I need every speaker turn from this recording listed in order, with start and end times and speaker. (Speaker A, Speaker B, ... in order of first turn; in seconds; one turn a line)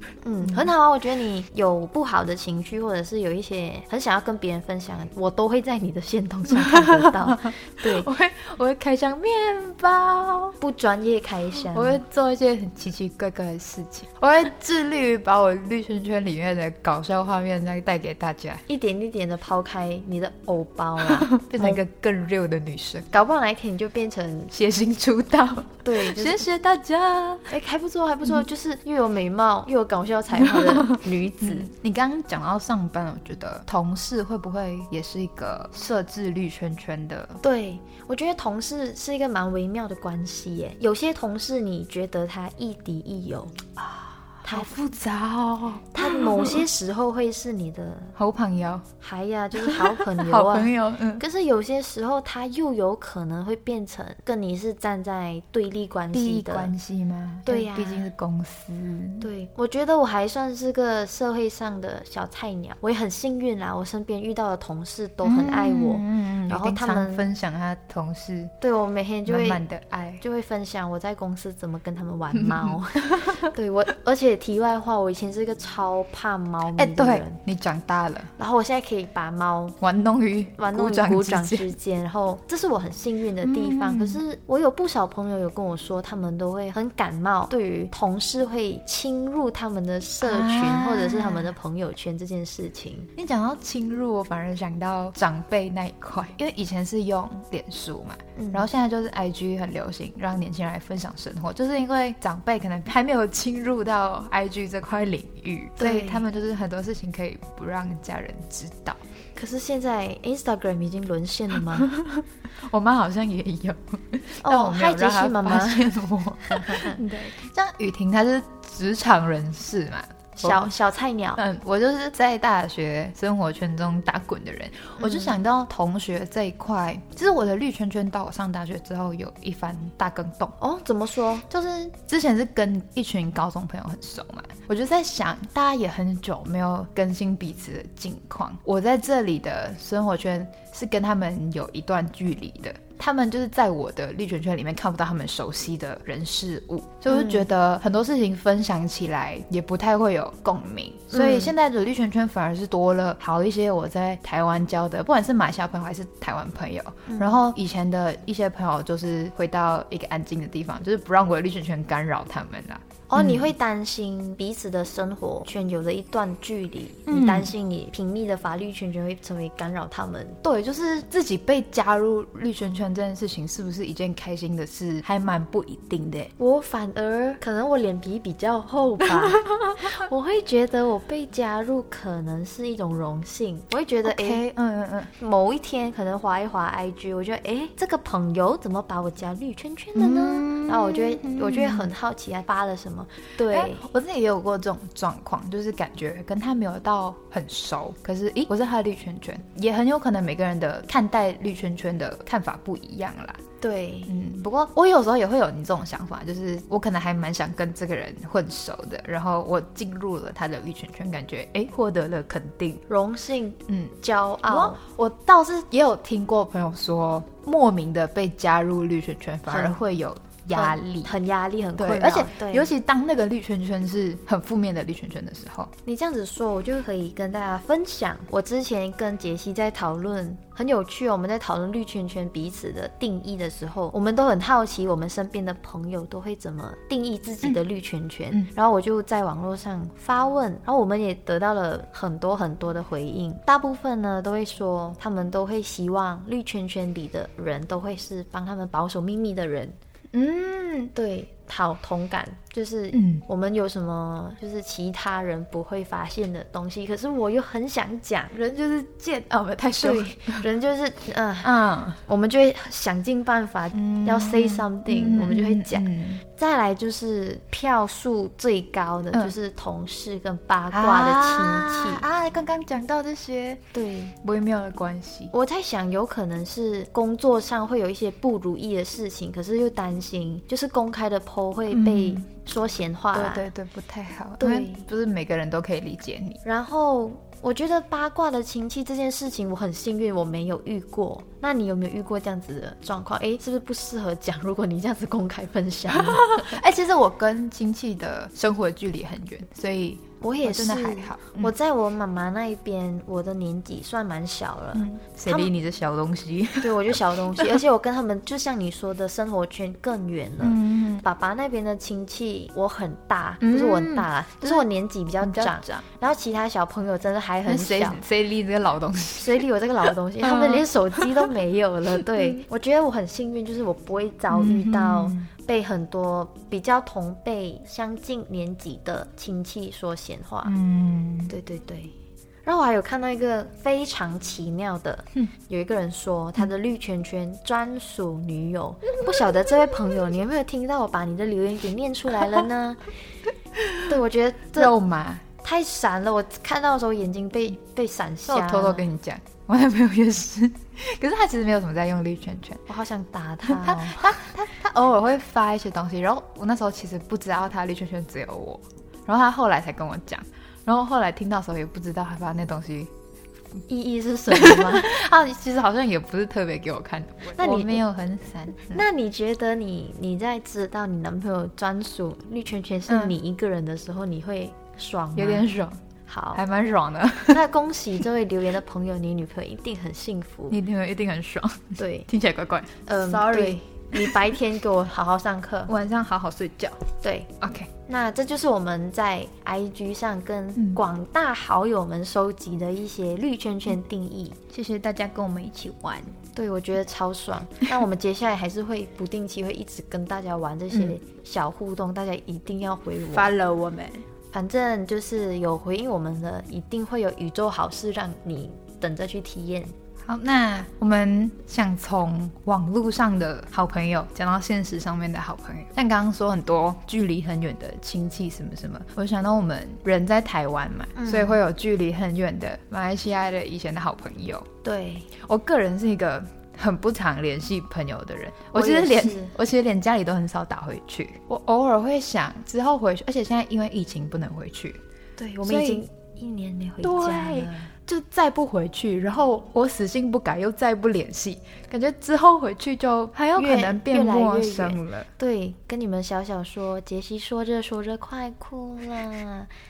Speaker A: 0.2-8.1
Speaker B: 0.4-0.7
Speaker B: 6.5-10.6
Speaker A: 10.6-12.0
Speaker B: 11.6-18.6
Speaker A: 18.7-21.8
Speaker B: 21.0-23.1
Speaker A: 23.1-24.5
Speaker B: 24.5-27.5
Speaker A: 25.8-26.4
Speaker A: 27.5-31.7
Speaker B: 30.3-37.4
Speaker A: 37.4-43.6
Speaker B: 43.8-46.7
Speaker A: 44.4-44.7
Speaker A: 45.9-48.1
Speaker B: 48.1-48.9
Speaker A: 49.0-56.7
Speaker B: 49.5-51.2
Speaker B: 56.1-59.3
Speaker A: 57.5-58.1
Speaker A: 59.2-67.2
Speaker B: 65.2-68.5
Speaker A: 68.6-69.6
Speaker B: 69.2-70.2
Speaker A: 70.2-77.4
Speaker B: 72.3-73.5
Speaker B: 76.8-78.3
Speaker A: 78.4-79.8
Speaker B: 79.8-81.7
Speaker A: 80.6-93.1
Speaker B: 83.4-84.2
Speaker B: 90.2-91.5
Speaker B: 93.2-109.0
Speaker A: 98.3-98.7
Speaker A: 105.8-106.2
Speaker A: 109.3-111.9
Speaker B: 111.7-120.7
Speaker A: 114.4-115.9
Speaker A: 116.4-117.0
Speaker A: 120.4-121.4
Speaker B: 121.4-130.5
Speaker A: 125.0-125.4
Speaker A: 130.6-131.4
Speaker B: 131.5-163.5
Speaker A: 147.1-147.4
Speaker A: 151.1-151.5
Speaker A: 157.1-157.4
Speaker A: 163.1-170.4
Speaker B: 167.1-167.5
Speaker B: 170.4-176.3
Speaker A: 176.4-184.5
Speaker B: 179.1-180.0
Speaker B: 184.1-185.1
Speaker A: 185.2-193.8
Speaker B: 189.9-191.9
Speaker B: 193.5-203.4
Speaker A: 203.6-204.1
Speaker B: 204.1-212.8
Speaker A: 212.9-214.8
Speaker B: 214.5-221.1
Speaker A: 219.5-219.8
Speaker A: 220.5-222.7
Speaker B: 221.8-225.7
Speaker A: 225.8-249.8
Speaker B: 250.1-250.9
Speaker A: 250.9-258.3
Speaker B: 252.9-253.2
Speaker B: 258.3-260.4
Speaker A: 259.8-261.5
Speaker B: 261.4-262.0
Speaker A: 262.0-272.1
Speaker B: 263.7-266.2
Speaker B: 270.7-273.6
Speaker A: 273.7-274.1
Speaker B: 274.2-275.3
Speaker A: 275.3-283.5
Speaker B: 281.7-282.2
Speaker B: 283.1-286.4
Speaker A: 284.4-284.9
Speaker A: 286.4-296.6
Speaker B: 295.9-301.5
Speaker A: 300.2-305.5
Speaker B: 304.7-307.6
Speaker A: 306.6-318.0
Speaker B: 310.4-311.1
Speaker B: 313.4-314.7
Speaker B: 315.2-315.8
Speaker B: 317.4-319.4
Speaker A: 319.1-330.5
Speaker B: 320.2-321.3
Speaker B: 324.3-325.3
Speaker B: 330.4-331.3
Speaker A: 331.3-331.9
Speaker A: 332.4-342.8
Speaker B: 343.6-343.9
Speaker A: 343.9-344.7
Speaker B: 344.5-345.2
Speaker A: 345.4-348.9
Speaker B: 348.3-352.6
Speaker A: 352.7-354.2
Speaker B: 353.4-362.9
Speaker A: 363.7-364.9
Speaker B: 364.3-368.8
Speaker A: 367.4-367.8
Speaker A: 368.7-375.5
Speaker B: 372.9-373.1
Speaker B: 375.1-375.8
Speaker A: 376.1-376.4
Speaker B: 376.3-377.4
Speaker A: 377.3-380.6
Speaker B: 380.5-384.4
Speaker A: 381.8-382.1
Speaker A: 382.9-385.7
Speaker B: 385.7-386.8
Speaker A: 387.0-387.3
Speaker B: 387.4-387.7
Speaker A: 387.9-394.4
Speaker B: 390.6-390.8
Speaker B: 394.5-396.1
Speaker A: 396.3-403.3
Speaker B: 400.7-401.0
Speaker B: 403.1-404.0
Speaker A: 404.3-409.7
Speaker B: 410.0-424.5
Speaker A: 420.9-421.4
Speaker A: 424.6-425.1
Speaker B: 425.1-434.8
Speaker A: 428.5-429.3
Speaker A: 435.2-437.7
Speaker B: 435.4-435.8
Speaker B: 436.8-445.1
Speaker A: 443.4-449.5